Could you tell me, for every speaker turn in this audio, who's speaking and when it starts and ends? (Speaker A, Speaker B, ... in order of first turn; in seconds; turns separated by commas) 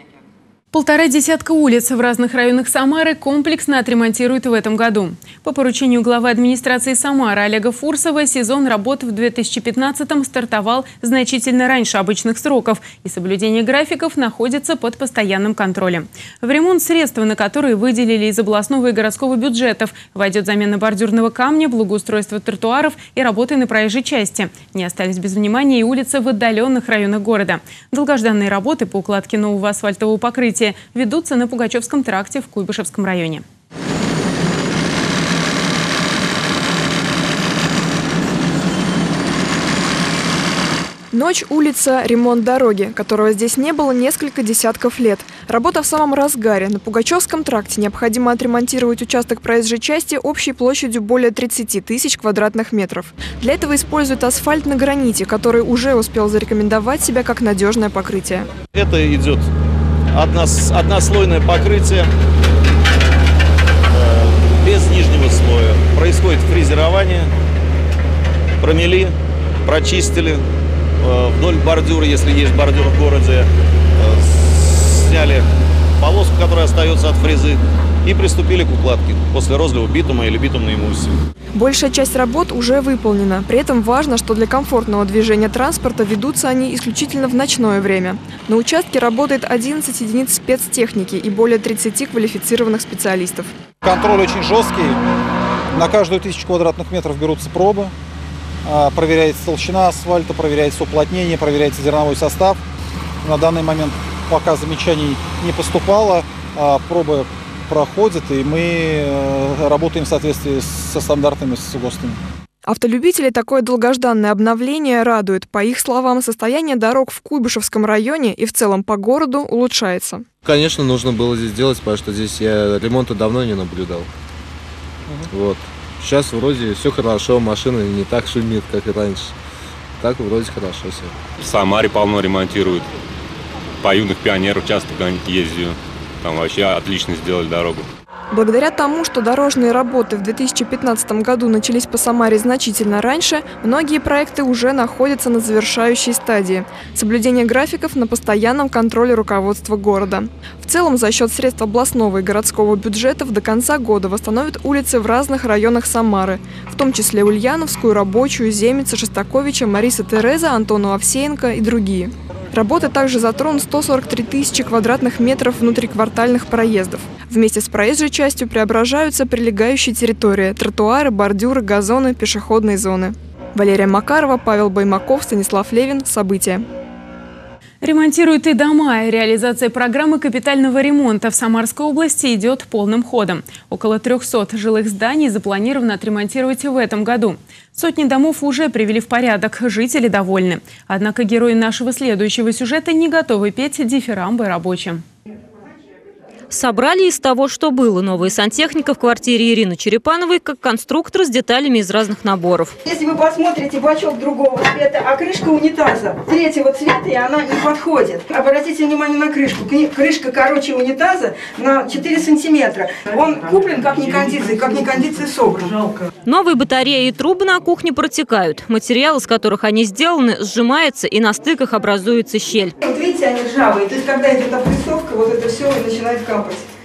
Speaker A: 0.7-33.4, Speaker B: 41.1-58.5, Speaker C: 58.7-59.5, Speaker C: 60.1-62.1, Speaker C: 63.9-67.3, Speaker C: 68.6-69.1, Speaker C: 69.6-70.4, Speaker C: 71.0-75.5, Speaker C: 76.0-81.1, Speaker B: 81.5-93.5, Speaker D: 93.8-95.0, Speaker D: 95.7-97.9, Speaker D: 98.6-102.6, Speaker D: 103.2-112.2, Speaker B: 112.6-120.2, Speaker E: 120.4-124.1, Speaker E: 125.2-129.3, Speaker E: 130.0-131.1, Speaker F: 131.4-132.9, Speaker F: 133.8-137.9, Speaker B: 138.3-176.6, Speaker A: 177.8-195.0, Speaker G: 196.5-202.8, Speaker H: 202.8-215.8, Speaker G: 216.2-222.7, Speaker H: 222.8-226.7